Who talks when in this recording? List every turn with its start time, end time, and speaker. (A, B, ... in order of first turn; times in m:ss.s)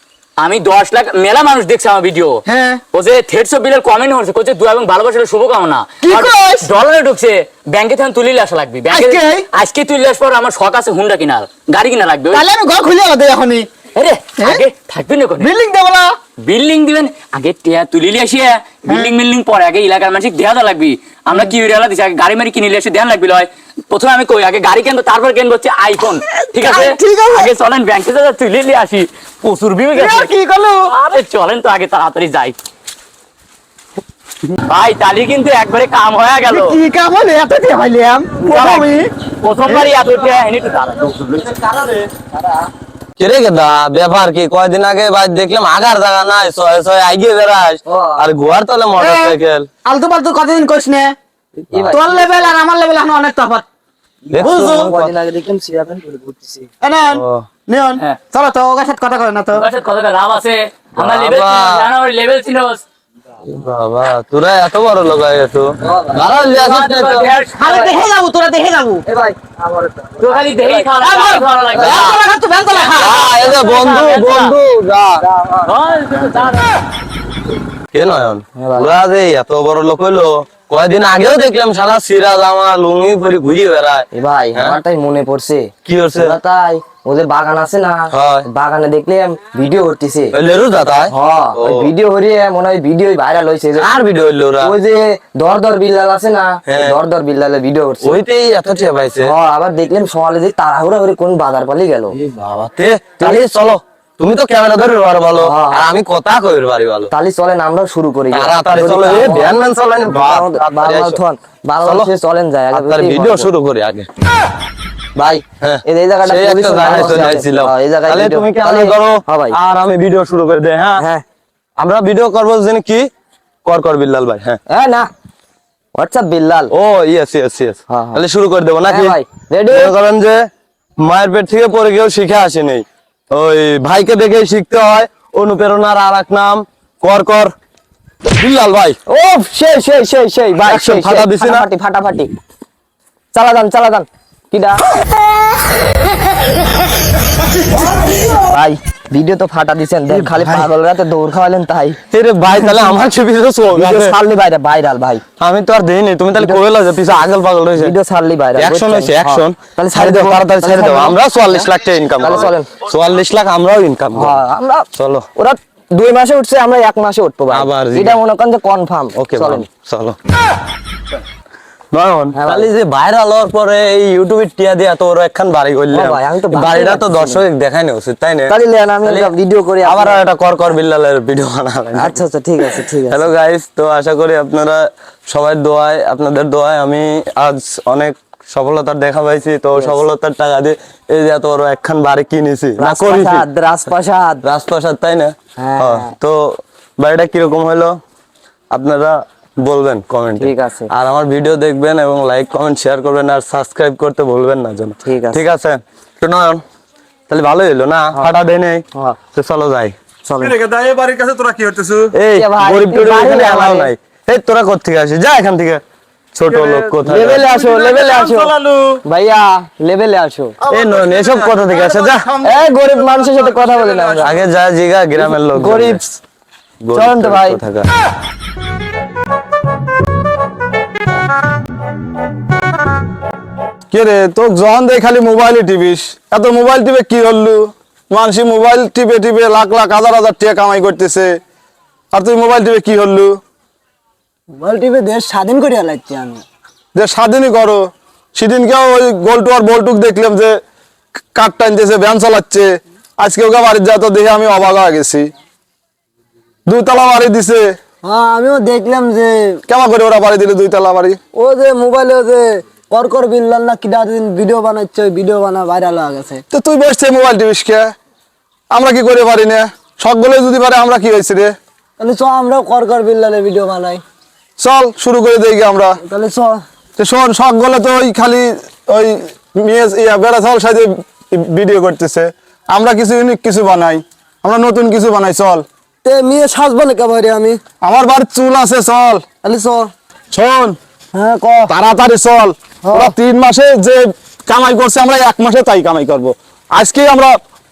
0:00.4-0:02.4 A
0:02.5-0:02.8 B
0:02.9-0:12.4 A
0:06.0-0:06.7 B
0:08.9-0:09.4 B
0:12.3-0:13.7 B
0:14.0-0:15.5 A
0:15.4-0:16.1 B
0:16.5-0:30.3 A
0:26.3-0:27.5 B
0:29.9-0:30.9 B
0:30.9-0:32.6 A
0:34.7-0:36.8 A
0:36.5-0:39.1 B
0:38.4-0:38.9 A
0:39.4-0:41.6 A
0:41.6-0:41.9 C
0:43.2-0:49.7 D
0:47.9-0:48.2 C
0:49.0-0:51.1 B
0:51.6-0:52.2 C
0:51.7-0:52.0 D
0:51.9-0:53.6 B
0:54.3-0:56.7 C
0:54.3-0:55.1 D
0:54.4-0:54.9 B
0:56.8-0:59.7 B
0:57.1-0:57.4 D
0:59.5-1:02.8 A
1:01.0-1:01.9 D
1:03.4-1:07.3 D
1:05.8-1:06.4 C
1:06.5-1:07.9 A
1:07.6-1:09.0 B
1:09.1-1:10.8 C
1:10.2-1:12.2 A
1:11.0-1:13.3 B
1:12.7-1:14.6 A
1:12.9-1:15.2 D
1:15.4-1:15.6 C
1:15.6-1:16.8 A
1:17.9-1:24.8 D
1:18.6-1:18.9 C
1:24.1-1:30.3 C
1:25.9-1:26.4 D
1:28.1-1:28.4 D
1:30.3-1:31.9 D
1:31.1-1:33.9 C
1:33.8-1:34.7 D
1:34.6-1:38.2 C
1:36.7-1:37.0 D
1:38.0-1:39.3 D
1:39.2-1:42.1 C
1:42.2-1:47.1 D
1:45.4-1:45.9 C
1:47.1-1:49.6 C
1:48.3-1:51.2 D
1:50.1-1:53.5 C
1:51.8-1:52.1 D
1:52.7-1:54.1 D
1:55.2-2:01.0 D
1:55.2-1:59.6 C
2:01.0-2:01.2 C
2:01.8-2:03.1 D
2:03.6-2:04.6 D
2:04.7-2:05.1 C
2:05.9-2:06.7 C
2:06.7-2:10.4 D
2:07.9-2:08.2 C
2:08.9-2:09.9 C
2:11.0-2:17.5 D
2:18.3-2:19.0 D
2:19.1-2:22.3 C
2:20.6-2:21.7 D
2:23.3-2:24.8 C
2:28.4-2:32.0 C
2:32.1-2:34.2 D
2:32.5-2:33.0 C
2:33.7-2:35.2 C
2:35.4-2:37.9 D
2:37.8-2:41.6 C
2:38.6-2:44.4 D
2:42.2-2:42.7 C
2:44.2-2:49.6 C
2:45.0-2:45.3 D
2:47.5-2:48.2 D
2:49.1-2:50.2 D
2:51.9-2:59.3 D
2:52.3-2:52.7 C
2:55.9-2:57.4 C
2:58.5-3:00.2 C
2:59.8-3:13.5 D
3:02.0-3:03.3 C
3:09.8-3:10.0 C
3:12.8-3:14.4 C
3:14.4-3:18.0 D
3:15.6-3:16.1 C
3:18.7-3:26.6 D
3:20.4-3:20.9 C
3:25.1-3:25.4 C
3:27.3-3:30.0 D
3:29.0-3:29.2 C
3:30.2-3:30.5 C
3:30.4-3:32.1 E
3:32.1-3:35.8 D
3:32.3-3:33.9 C
3:36.4-3:37.5 D
3:36.5-3:39.0 E
3:37.0-3:38.5 C
3:39.0-3:40.6 C
3:40.6-3:44.2 E
3:40.7-3:42.4 D
3:42.4-3:44.3 C
3:44.2-3:46.0 D
3:45.3-3:46.1 C
3:46.8-3:47.9 D
3:47.0-3:47.6 C
3:53.9-4:01.4 E
4:02.1-4:03.4 E
4:04.6-4:06.4 F
4:07.0-4:10.6 E
4:11.4-4:15.3 E
4:16.7-4:17.8 E
4:18.0-4:19.6 F
4:19.7-4:21.2 E
4:21.4-4:26.4 F
4:26.5-4:27.9 E
4:28.7-4:31.6 E
4:32.0-4:34.0 F
4:34.6-4:36.0 E
4:36.0-4:36.6 F
4:37.0-4:45.6 E
4:46.0-4:47.6 F
4:47.8-4:49.2 E
4:49.4-4:49.9 F
4:50.3-4:50.8 E
4:51.1-4:51.8 F
4:51.7-4:57.4 E
4:52.8-4:53.1 F